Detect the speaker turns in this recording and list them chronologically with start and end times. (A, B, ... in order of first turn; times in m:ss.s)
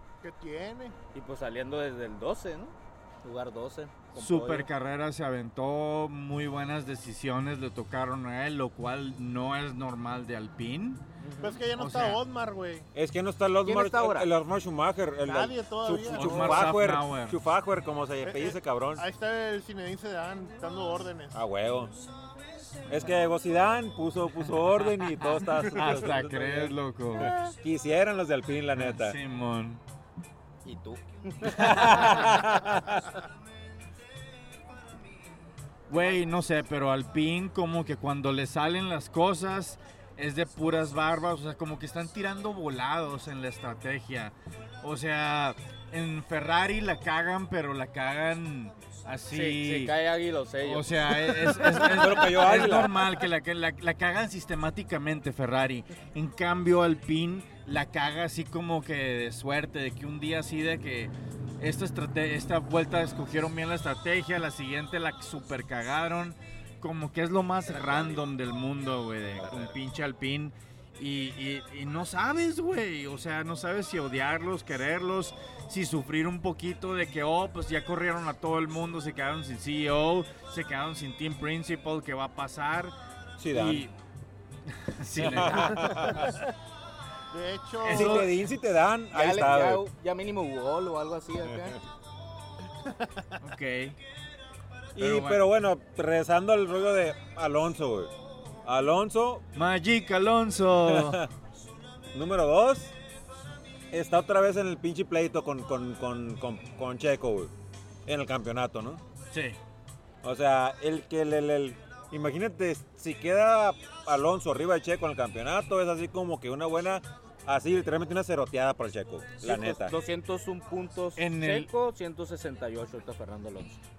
0:00.2-0:01.0 A
0:01.1-0:04.7 B
0:04.2-0:11.0 C
0:11.2-0:11.6 B
0:11.4-0:12.9 A
0:11.8-0:12.2 C
0:12.9-0:19.0 D
0:13.6-0:14.3 B
0:15.2-0:16.7 A
0:16.1-0:17.4 C
0:18.2-0:21.4 A
0:21.3-0:21.9 D
0:22.9-0:29.2 D
0:25.0-0:27.3 C
0:27.2-0:27.5 B
0:28.7-0:29.8 C
0:30.6-0:32.5 B
0:31.4-0:33.0 D
0:31.5-0:32.0 C
0:35.9-0:50.0 C
0:49.3-0:51.6 B
0:50.6-1:22.9 C
0:51.7-0:53.0 D
1:07.7-1:08.2 D
1:09.4-1:09.7 D
1:23.4-1:23.9 D
1:23.5-1:23.9 C
1:24.7-1:26.2 C
1:25.2-1:26.3 D
1:25.6-1:26.2 B
1:27.3-1:28.4 A
1:27.8-1:28.4 C
1:27.9-1:29.8 D
1:29.1-1:31.8 B
1:32.9-1:33.2 A
1:33.4-1:34.0 C
1:35.0-1:35.4 C
1:35.0-1:38.1 D
1:38.6-1:39.4 D
1:39.5-1:41.2 C
1:40.8-1:41.3 D
1:42.1-1:42.9 D
1:43.9-1:47.5 D
1:48.0-1:49.0 D
1:49.3-1:49.6 C
1:50.2-1:59.9 D
1:59.4-2:03.8 B
2:01.2-2:01.7 C